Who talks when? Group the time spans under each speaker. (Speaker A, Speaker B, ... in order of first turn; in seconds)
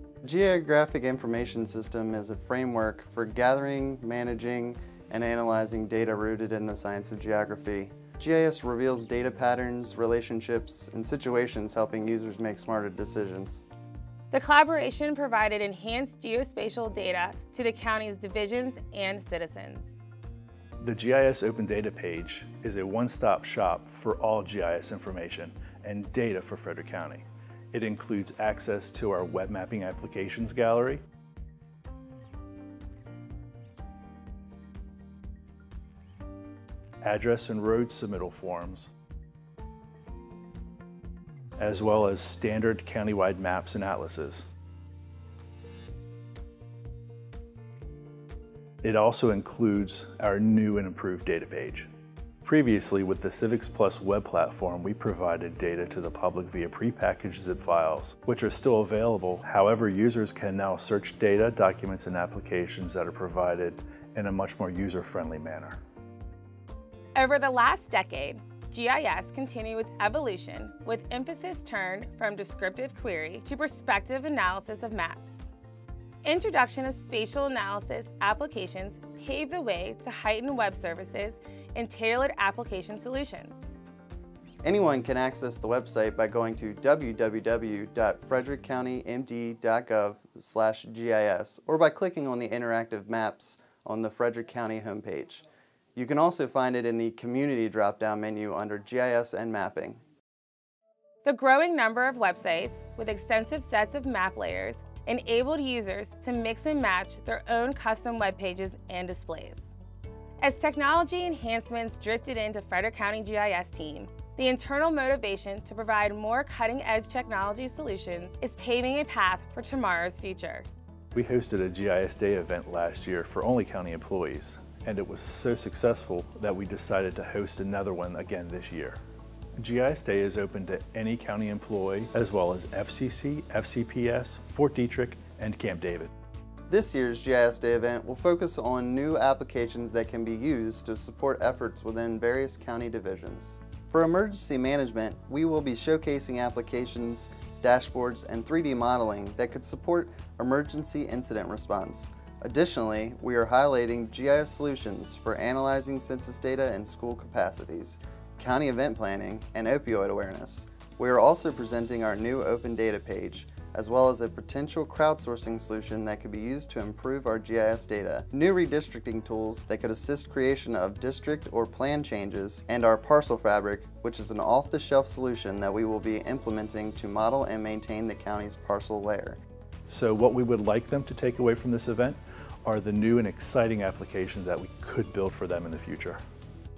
Speaker A: 0.2-13.7, 84.6-100.0, 136.7-179.4
Speaker B: 14.3-20.0, 67.2-75.5, 76.2-83.7, 101.2-109.7, 110.4-120.7
Speaker C: 20.8-31.0, 37.0-38.9, 41.6-44.5, 48.8-51.9, 52.4-65.8, 121.2-129.0, 129.6-136.1, 179.9-186.2